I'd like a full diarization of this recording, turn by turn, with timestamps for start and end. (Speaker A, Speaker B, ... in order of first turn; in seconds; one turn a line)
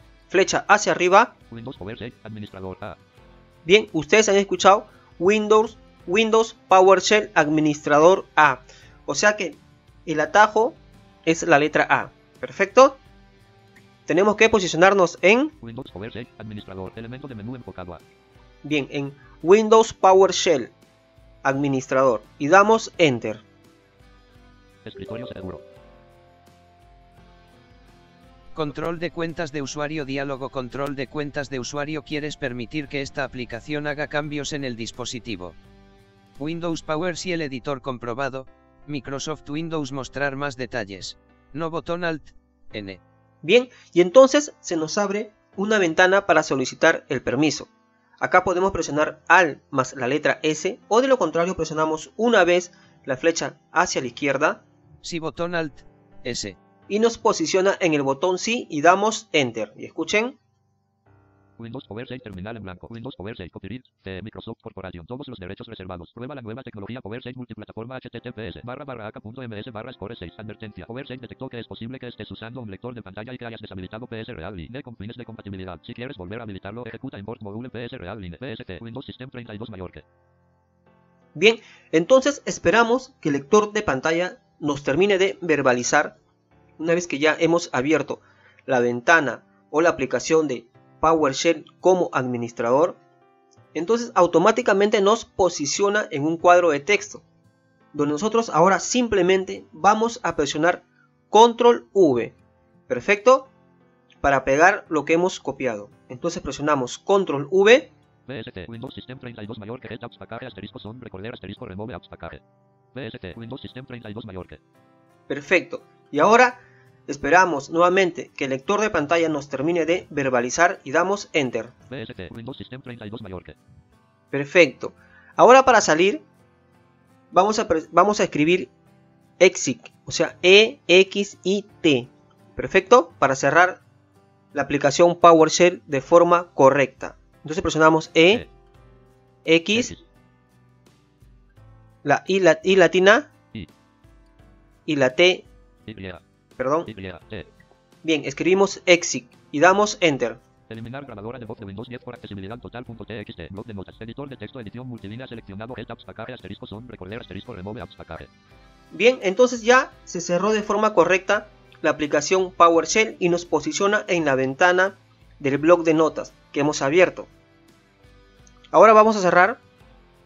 Speaker A: 0.3-1.3
Speaker B: 1.5-3.0
Speaker A: 3.6-13.0
Speaker A: 14.1-15.5
Speaker B: 15.6-18.0
Speaker A: 18.6-20.7
Speaker A: 21.4-23.4
Speaker B: 24.8-25.6
Speaker C: 28.5-35.6
Speaker C: 36.4-43.0
Speaker A: 43.4-47.7
Speaker A: 48.2-54.6
Speaker C: 55.0-56.5
Speaker A: 56.9-60.4
Speaker B: 61.6-80.0
Speaker A: 81.3-86.2
Speaker A: 86.8-93.0
Speaker A: 93.7-97.2
Speaker A: 97.9-102.4
Speaker A: 102.9-103.5
Speaker A: 104.2-107.9
Speaker B: 108.3-112.4
Speaker B: 112.9-114.6
Speaker A: 115.3-121.7
Speaker B: 121.9-123.6
Speaker A: 124.3-126.2
Speaker A: 127.3-128.7
Speaker A: 129.4-133.8
Speaker A: 134.5-138.4
Speaker A: 139.4-139.9
Speaker B: 139.7-140.0
Speaker A: 142.0-143.3
Speaker A: 144.9-145.5
Speaker B: 145.9-146.2
Speaker A: 146.6-146.9
Speaker B: 146.9-147.5
Speaker A: 148.0-150.4
Speaker B: 150.7-158.3
Speaker A: 158.9-167.3
Speaker A: 168.7-169.6